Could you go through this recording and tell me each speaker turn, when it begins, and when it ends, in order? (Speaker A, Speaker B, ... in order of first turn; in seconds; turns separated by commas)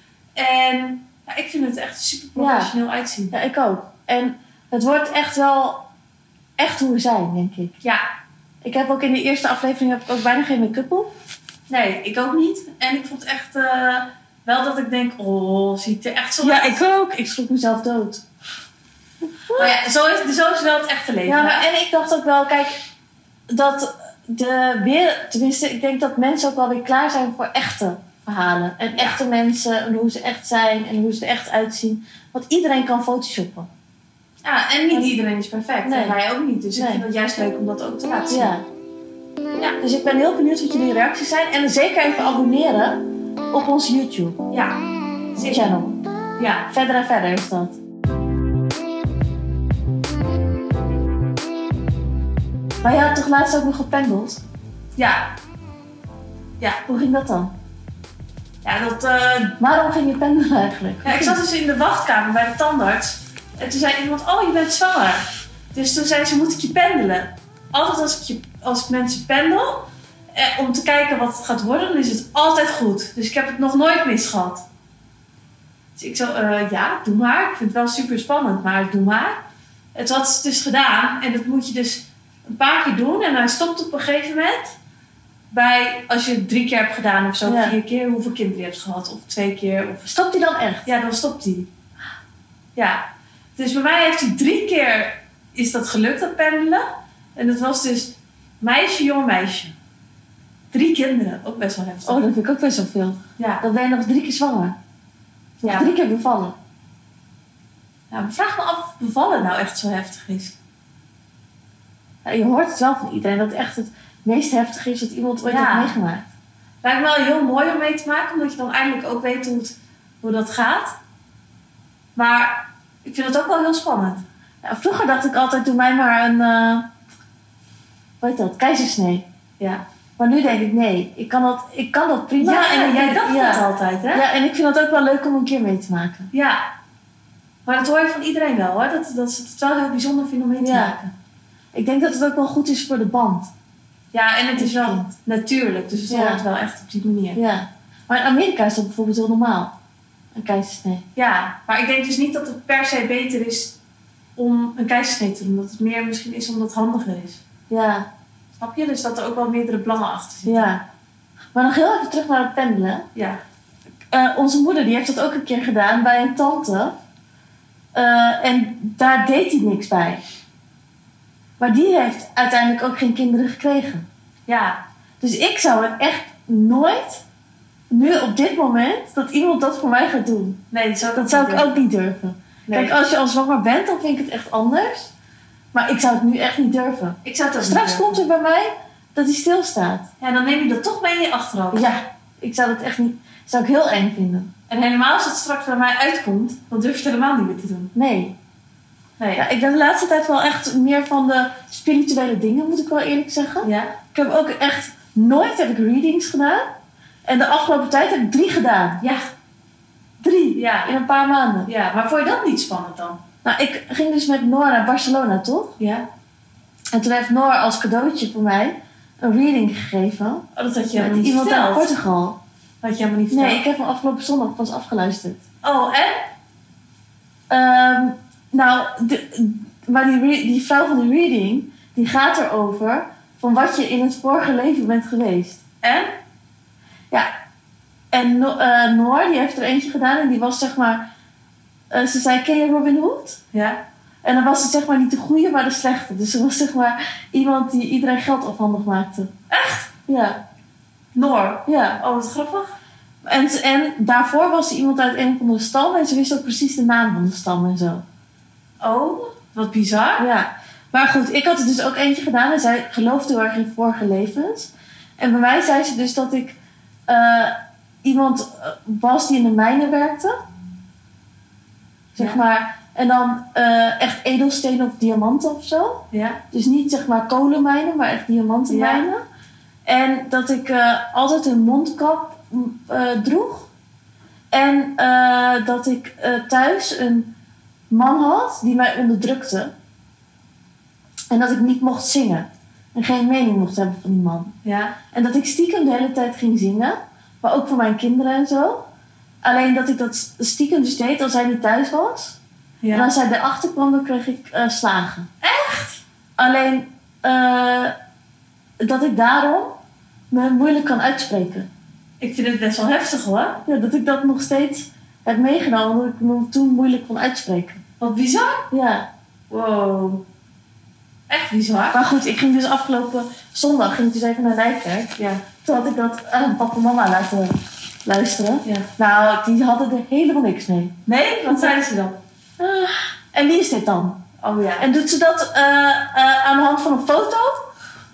Speaker A: 0.3-3.3, Speaker B: 2.4-2.7, Speaker B: 3.3-5.8, Speaker B: 6.6-7.7, Speaker B: 8.6-11.1, Speaker A: 11.7-16.8, Speaker B: 16.4-18.2, Speaker B: 19.4-19.7, Speaker A: 19.6-21.7, Speaker B: 21.3-22.8, Speaker B: 23.5-33.7, Speaker A: 28.9-29.2, Speaker A: 34.4-38.5, Speaker B: 34.9-35.2, Speaker B: 35.8-36.2, Speaker B: 36.8-37.0, Speaker B: 38.3-38.6, Speaker B: 39.8-44.4, Speaker A: 44.5-44.8, Speaker A: 45.3-45.6, Speaker B: 45.5-46.0, Speaker A: 46.4-46.7, Speaker B: 46.7-47.8, Speaker B: 52.8-54.4, Speaker A: 55.0-55.3, Speaker B: 56.9-57.5, Speaker A: 58.6-59.6, Speaker B: 59.6-61.4, Speaker A: 61.0-74.6, Speaker A: 76.0-79.4, Speaker A: 79.9-84.8, Speaker A: 85.5-90.1, Speaker B: 87.4-87.8, Speaker B: 90.0-90.9, Speaker A: 90.8-91.7, Speaker A: 92.8-93.0, Speaker A: 93.6-99.7, Speaker A: 100.7-102.2, Speaker B: 102.0-104.8, Speaker A: 103.4-103.6, Speaker A: 105.6-105.9, Speaker B: 105.6-106.5, Speaker A: 108.1-110.6, Speaker B: 112.2-116.3, Speaker A: 115.4-115.9, Speaker A: 116.8-120.9, Speaker A: 122.2-124.2, Speaker B: 124.6-126.9, Speaker B: 128.2-129.2, Speaker B: 130.2-136.3, Speaker A: 132.4-134.2, Speaker A: 136.3-136.6, Speaker A: 137.7-141.1, Speaker B: 140.6-141.0, Speaker B: 141.7-143.5, Speaker A: 144.1-147.4, Speaker B: 144.6-145.1, Speaker B: 146.1-146.4, Speaker B: 147.3-149.7, Speaker B: 150.3-151.0, Speaker A: 151.2-153.8, Speaker A: 154.4-157.4, Speaker B: 157.7-158.1, Speaker A: 158.6-160.7, Speaker B: 160.4-160.8, Speaker B: 161.5-163.1, Speaker A: 163.1-163.4, Speaker B: 164.1-166.9, Speaker B: 167.9-170.2, Speaker B: 171.6-174.1, Speaker A: 174.5-174.8, Speaker B: 175.2-177.2, Speaker B: 177.9-185.1, Speaker A: 180.7-181.8, Speaker A: 182.7-182.9, Speaker B: 185.7-190.1, Speaker A: 187.2-188.2, Speaker A: 190.2-191.9, Speaker B: 191.7-194.5, Speaker A: 194.7-197.9, Speaker B: 197.9-198.3, Speaker A: 199.2-199.4, Speaker B: 199.4-206.7, Speaker A: 203.6-204.0, Speaker B: 207.2-209.0, Speaker A: 209.0-209.3, Speaker B: 210.2-211.7, Speaker A: 210.6-210.9, Speaker A: 211.7-213.2, Speaker B: 213.4-215.8, Speaker A: 215.8-216.1, Speaker B: 216.9-222.4, Speaker A: 220.5-221.9, Speaker A: 222.8-223.6, Speaker B: 223.3-225.4, Speaker A: 225.6-226.3, Speaker B: 227.5-235.6, Speaker A: 235.8-236.1, Speaker B: 238.1-241.1, Speaker B: 241.9-243.4, Speaker A: 243.5-243.8, Speaker B: 244.2-249.3, Speaker A: 249.5-249.9, Speaker B: 250.1-250.4, Speaker A: 251.1-252.7, Speaker B: 251.7-252.0, Speaker B: 253.2-258.0, Speaker A: 258.8-260.3, Speaker B: 260.2-270.4, Speaker B: 272.1-279.2, Speaker A: 276.1-276.4, Speaker A: 278.7-279.0, Speaker B: 279.8-283.7, Speaker B: 284.5-287.3, Speaker B: 287.9-289.7, Speaker B: 291.3-294.5, Speaker A: 294.6-295.0, Speaker B: 295.1-298.9, Speaker B: 299.4-302.4, Speaker A: 302.8-303.1, Speaker B: 302.9-305.3, Speaker A: 305.4-306.0, Speaker B: 306.4-307.9, Speaker B: 308.8-309.8, Speaker B: 310.3-311.7, Speaker A: 312.2-313.6, Speaker B: 313.6-317.8, Speaker A: 318.0-318.7, Speaker B: 318.7-319.1, Speaker A: 319.5-320.2, Speaker A: 321.3-322.0, Speaker B: 321.9-330.9, Speaker A: 325.2-325.4, Speaker A: 331.1-332.2, Speaker B: 332.6-334.2, Speaker A: 334.4-334.9, Speaker B: 334.8-337.6